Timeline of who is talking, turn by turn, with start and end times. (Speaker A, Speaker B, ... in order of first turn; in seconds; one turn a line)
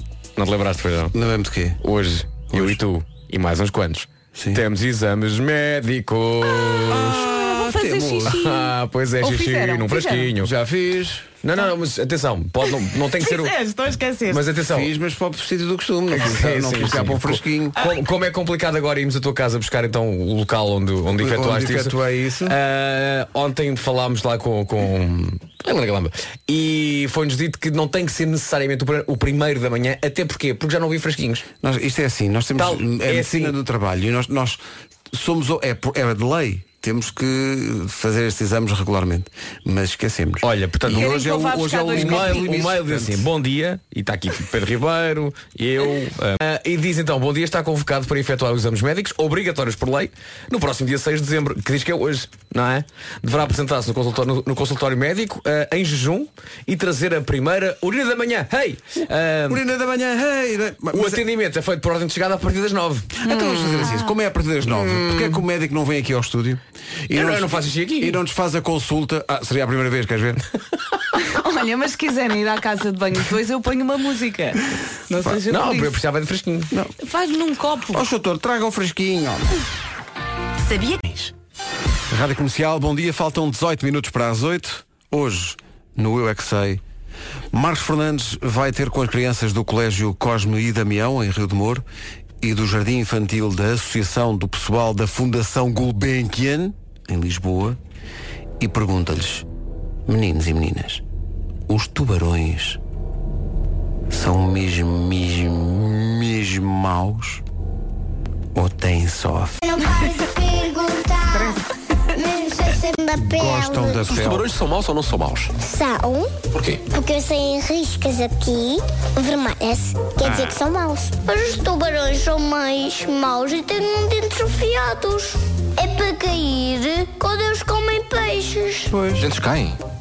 Speaker A: 0.4-1.1
Speaker B: 1.1-1.8
Speaker A: 1.8-7.2
Speaker B: 2.5-2.8
Speaker B: 4.3-4.6
Speaker C: 6.5-10.3
Speaker B: 6.9-8.4
Speaker A: 8.3-10.5
Speaker B: 10.4-11.3
Speaker A: 11.4-13.6
Speaker C: 13.1-14.4
Speaker A: 14.3-14.9
Speaker B: 14.7-17.8
Speaker A: 16.1-31.4
Speaker B: 21.2-22.6
Speaker B: 31.6-34.6
Speaker A: 32.6-33.6
Speaker B: 35.1-43.3
Speaker A: 40.4-41.3
Speaker C: 40.9-42.5
Speaker A: 41.8-59.6
Speaker B: 59.5-61.2
Speaker A: 60.9-63.1
Speaker B: 63.2-70.4
Speaker C: 63.2-64.2
Speaker A: 64.7-65.4
Speaker A: 67.1-68.2
Speaker C: 71.2-76.0
Speaker A: 75.5-76.7
Speaker C: 77.0-78.0
Speaker B: 77.9-79.6
Speaker B: 82.1-86.8
Speaker B: 87.5-91.8
Speaker B: 92.4-97.8
Speaker B: 98.6-99.5
Speaker B: 100.1-101.0
Speaker B: 101.7-102.8
Speaker B: 104.1-107.4
Speaker B: 108.5-109.6
Speaker D: 109.6-111.6
Speaker C: 111.3-111.6
Speaker D: 112.1-114.0
Speaker B: 113.2-114.5
Speaker E: 114.1-115.5
Speaker D: 115.6-116.3
Speaker E: 116.5-116.8
Speaker D: 116.9-128.9
Speaker B: 120.2-120.5
Speaker B: 128.9-129.2
Speaker E: 129.2-129.8